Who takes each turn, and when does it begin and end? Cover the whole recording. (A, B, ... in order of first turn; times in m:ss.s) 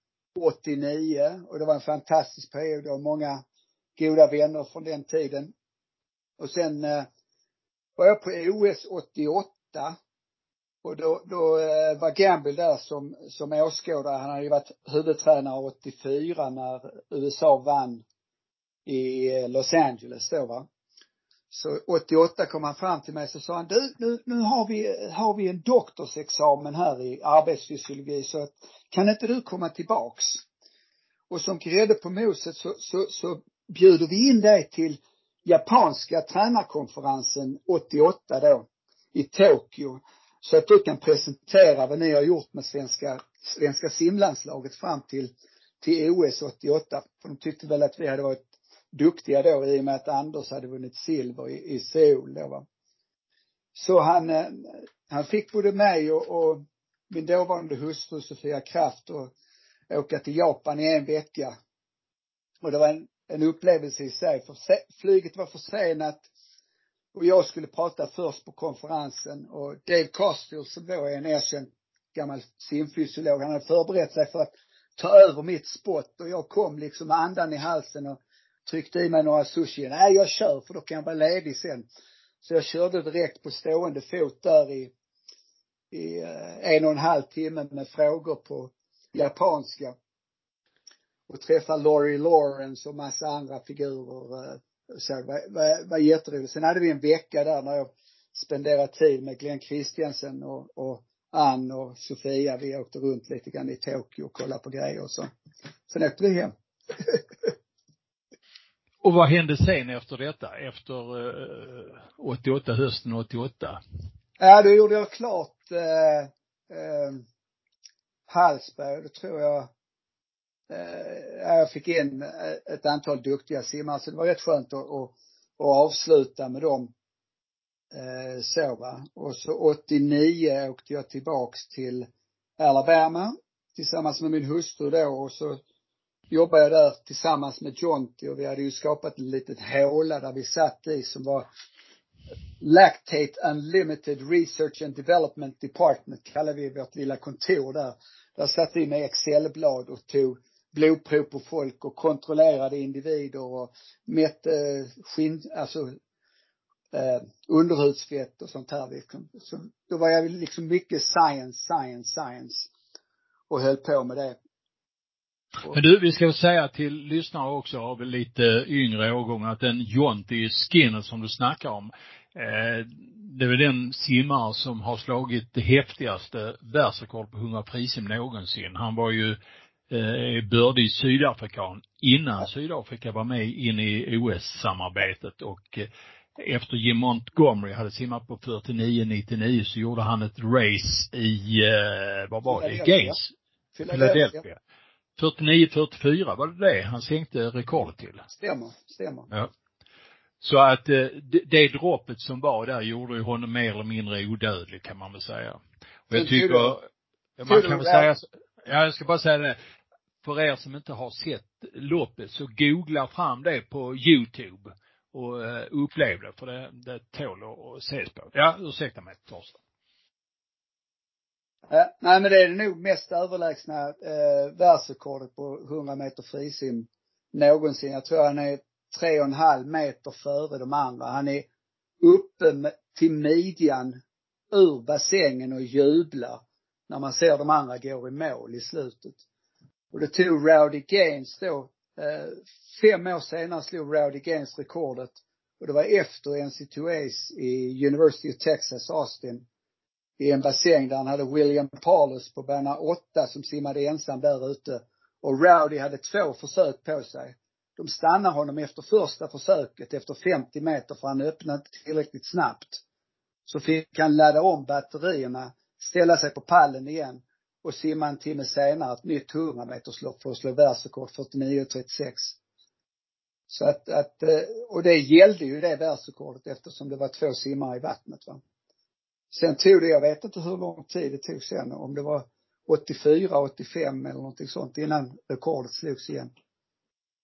0:00.3-0:03.4 A
0:04.0-0:05.5 A
0:06.4-0:07.1 A
0:08.0-0:10.0 A
0:10.8-0:18.0 A
0:18.8-0:20.7 A
0:21.5-0:30.4 A
0:31.3-0:52.6 A
0:53.8-0:59.3 A
0:59.9-1:01.5 A
1:02.6-1:06.2 A
1:07.1-1:21.8 A
1:22.4-1:24.9 A
1:25.9-1:29.9 A
1:31.3-1:45.3 A
1:45.9-1:47.2 A
1:49.0-1:53.8 B
1:54.4-1:57.2 A
1:58.3-1:59.7 A
2:00.7-2:06.9 A
2:07.9-2:12.1 A
2:12.6-2:15.6 A
2:16.3-2:21.4 A
2:22.6-2:36.0 A
2:36.9-2:42.7 A
2:43.5-2:44.4 A
2:45.7-2:59.4 B
2:59.9-3:13.3 B
3:12.4-3:13.2 A
3:13.7-3:14.4 A
3:13.9-3:14.6 B
3:15.2-3:18.2 B
3:18.3-3:19.3 A
3:20.4-3:26.8 B
3:26.1-3:26.8 A
3:27.4-3:29.6 B
3:27.4-3:28.1 A
3:30.2-3:39.6 B
3:41.7-3:51.4 A
3:52.0-3:54.0 A
3:54.5-3:59.2 A
3:59.9-4:09.4 A
4:10.2-4:22.8 A
4:23.5-4:32.4 A
4:33.5-4:38.4 A
4:39.3-4:46.3 A